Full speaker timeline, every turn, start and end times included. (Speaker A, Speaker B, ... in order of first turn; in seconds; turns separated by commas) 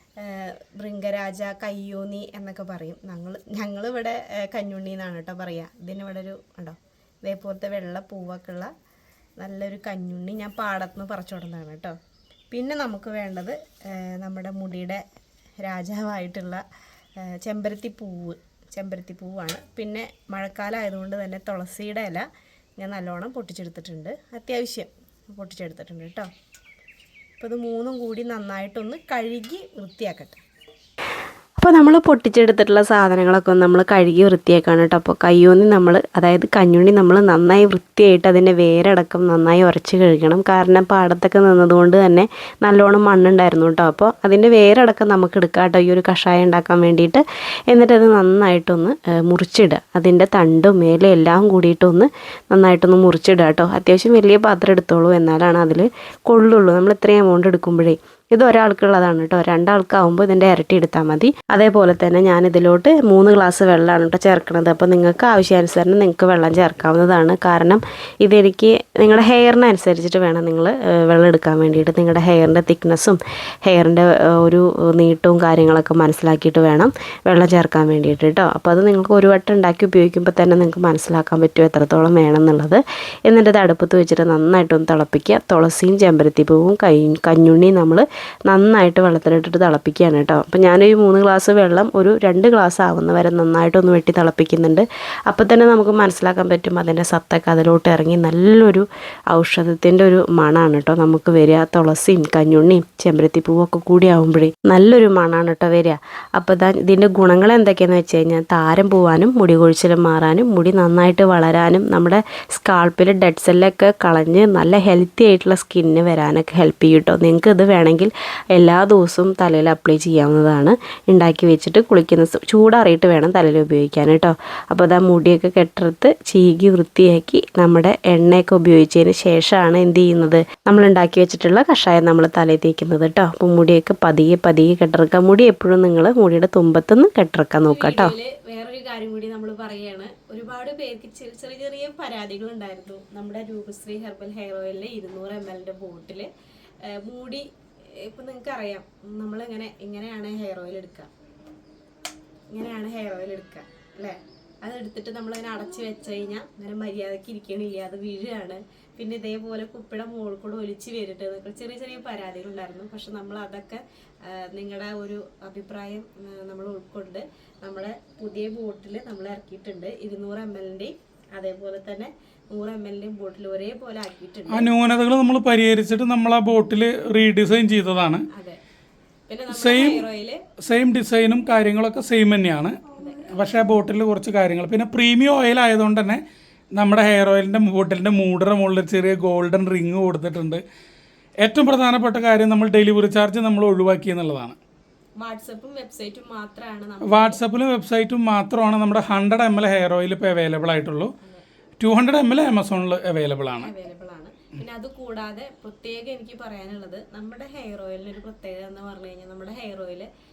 Speaker A: 0.2-8.7, Speaker A: 9.4-12.0, Speaker A: 12.5-15.0, Speaker A: 15.6-16.6, Speaker A: 17.2-22.3, Speaker A: 22.8-26.3, Speaker A: 27.4-30.4, Speaker B: 31.6-138.1, Speaker A: 137.6-146.3, Speaker A: 146.9-151.1, Speaker A: 152.5-174.7, Speaker C: 174.5-178.3, Speaker A: 178.3-178.6, Speaker A: 179.3-180.4, Speaker C: 179.5-180.1, Speaker C: 180.7-186.2, Speaker A: 183.0-183.3, Speaker C: 186.8-190.6, Speaker C: 191.4-194.6, Speaker A: 195.2-197.4, Speaker C: 197.1-201.1, Speaker C: 201.8-203.7, Speaker A: 203.6-210.1